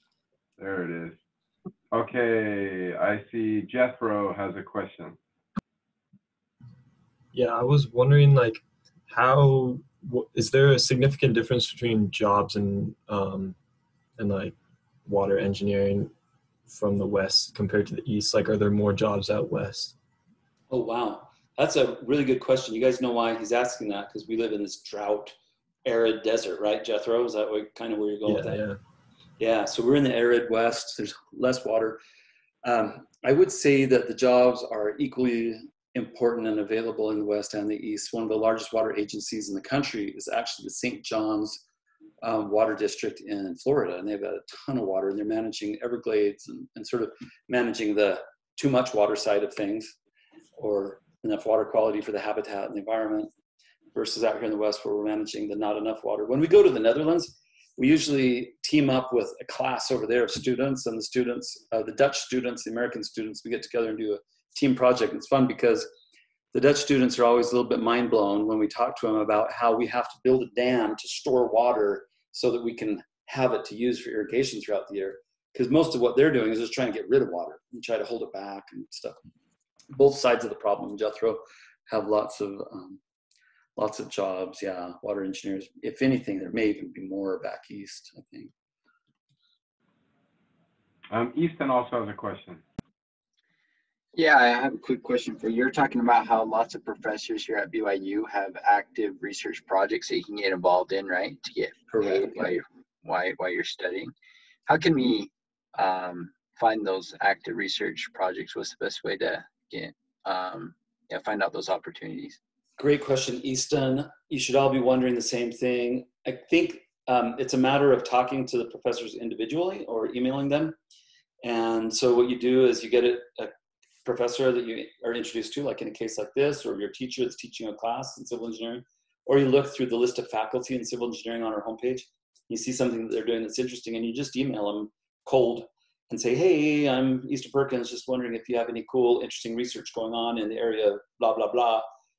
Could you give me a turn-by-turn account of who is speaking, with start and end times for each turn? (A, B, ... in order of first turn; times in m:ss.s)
0:00.6-0:01.2 A
0:01.9-0:05.2 A
0:07.3-0:13.6 B
0:14.2-0:16.1 B
0:16.7-0:20.0 B
0:20.7-0:28.6 C
0:28.3-0:28.8 B
0:29.4-0:32.0 C
0:32.6-0:41.6 C
0:42.2-0:49.9 C
0:50.6-0:53.3 C
0:53.9-1:05.9 C
1:06.5-1:19.2 C
1:19.9-1:23.0 C
1:23.8-1:28.5 C
1:31.1-1:32.6 A
1:34.2-1:44.1 D
1:41.9-1:42.5 C
1:44.7-1:52.4 D
1:52.8-2:00.8 C
2:01.4-2:03.5 C
2:04.0-2:21.8 C